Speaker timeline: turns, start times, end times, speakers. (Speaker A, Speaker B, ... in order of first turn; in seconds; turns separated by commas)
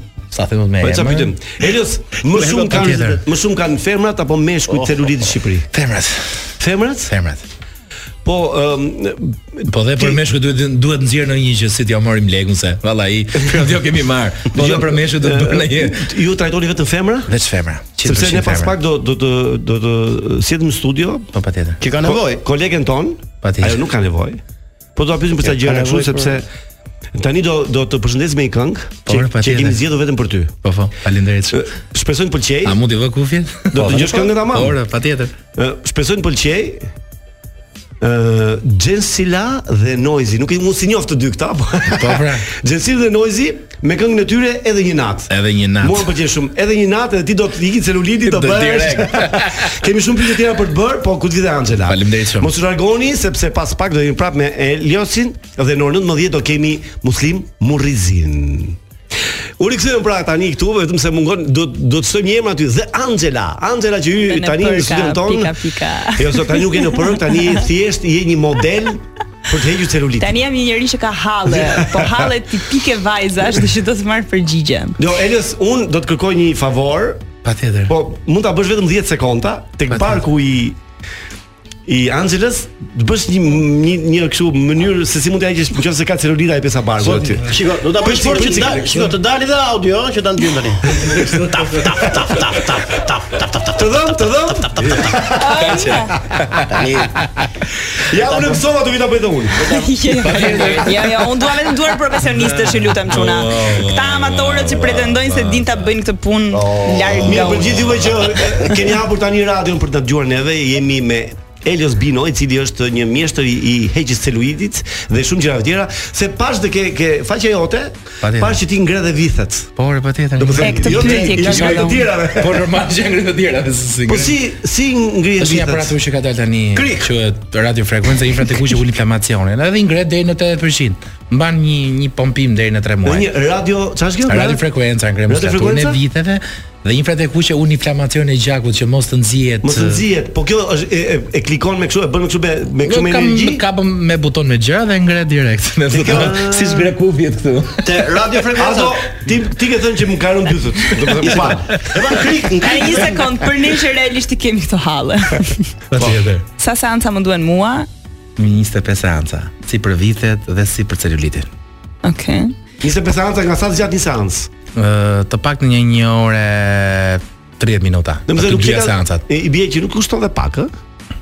Speaker A: 0.3-1.3, Speaker B: 0.8-5.7, Speaker C: 2.3-3.2, Speaker A: 2.7-3.2, Speaker C: 4.7-5.2, Speaker A: 5.7-7.4, Speaker B: 6.6-7.1, Speaker B: 8.2-10.2, Speaker A: 9.7-16.1, Speaker B: 14.5-17.3, Speaker A: 17.3-18.8, Speaker B: 18.0-21.3, Speaker A: 21.3-21.8, Speaker C: 21.8-22.4, Speaker B: 22.0-24.4, Speaker A: 23.4-23.8, Speaker B: 25.0-26.5, Speaker C: 25.5-26.4, Speaker B: 27.1-30.5, Speaker A: 29.1-29.8, Speaker A: 30.6-31.7, Speaker B: 31.5-32.8, Speaker A: 32.6-35.3, Speaker B: 33.7-34.8, Speaker B: 35.6-36.9, Speaker B: 38.0-58.8, Speaker A: 42.0-42.5, Speaker A: 45.3-46.1, Speaker A: 48.2-49.8, Speaker A: 51.9-52.5, Speaker B: 59.6-70.4, Speaker D: 64.3-67.5, Speaker D: 70.2-75.0, Speaker B: 71.5-72.3, Speaker B: 75.0-77.2, Speaker A: 77.4-77.9, Speaker B: 77.9-80.8, Speaker A: 79.9-80.2, Speaker B: 81.9-89.2, Speaker C: 87.0-95.2, Speaker A: 91.0-91.5, Speaker B: 93.8-96.0, Speaker D: 95.3-96.2, Speaker A: 95.6-97.5, Speaker C: 96.7-97.2, Speaker B: 98.0-99.7, Speaker D: 99.7-108.1, Speaker A: 100.2-101.3, Speaker A: 102.2-105.8, Speaker C: 106.5-107.3, Speaker B: 107.2-119.7, Speaker A: 118.2-118.6, Speaker A: 119.8-124.4, Speaker B: 120.4-122.7, Speaker D: 120.6-122.0, Speaker B: 124.1-126.0, Speaker A: 125.4-133.3, Speaker C: 126.8-127.1, Speaker B: 133.1-134.7, Speaker A: 134.3-140.0, Speaker B: 135.3-136.0, Speaker B: 139.6-143.6, Speaker A: 142.8-148.1, Speaker C: 145.9-146.9, Speaker B: 146.0-146.9, Speaker C: 147.8-149.1, Speaker B: 148.5-151.7, Speaker C: 151.2-153.3, Speaker A: 151.7-151.9, Speaker D: 152.6-155.7, Speaker A: 155.9-156.4, Speaker B: 156.0-156.4, Speaker D: 156.6-157.9, Speaker A: 158.4-161.5, Speaker D: 162.0-162.5, Speaker B: 162.8-164.5, Speaker A: 164.8-169.2, Speaker B: 168.3-170.7